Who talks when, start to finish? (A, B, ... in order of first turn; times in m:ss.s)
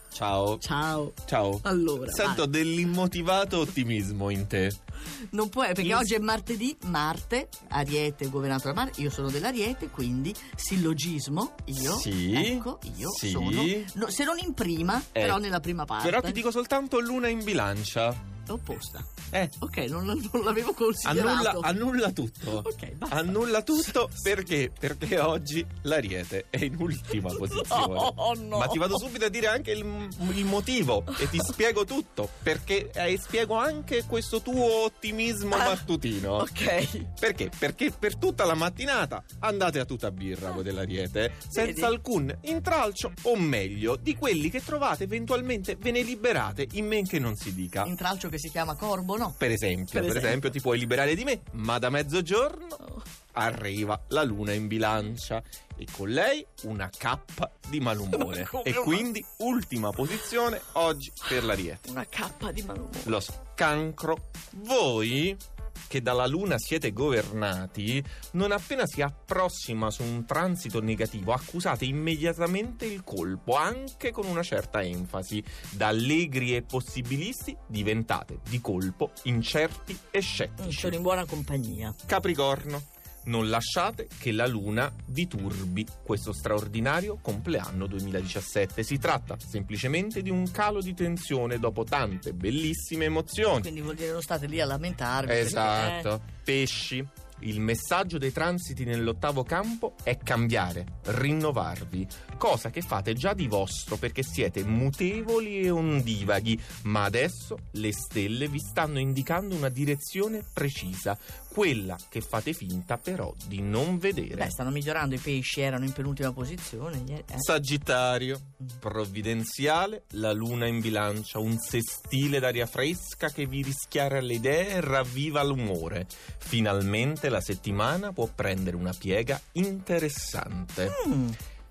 0:00.1-0:00.6 A
0:00.6-0:02.4 B
0:01.2-0:04.8 A
0:05.3-0:16.4 B
0:05.8-0:06.1 A
0:11.8-0:13.9 A
0:15.2-0:15.4 A
0:16.0-0:18.2 A
0:18.5-0:21.7 B
0:19.3-0:19.6 A
0:21.0-0:36.5 A
0:22.4-0:23.4 B
0:27.3-0:29.0 B
0:35.5-0:35.8 B
0:36.4-0:37.1 B
0:37.2-0:47.9 A
0:41.5-0:41.9 B
0:47.8-0:49.4 B
0:49.4-0:52.8 A
0:49.9-0:50.5 B
0:53.3-1:01.9 A
0:58.1-0:59.1 B
1:01.3-1:03.1 B
1:03.0-1:21.0 A
1:20.6-1:22.0 B
1:22.1-1:33.7 A
1:33.6-1:36.1 B
1:35.2-1:54.5 A
1:54.3-1:57.5 B
1:57.4-2:11.0 A
2:10.9-2:11.4 B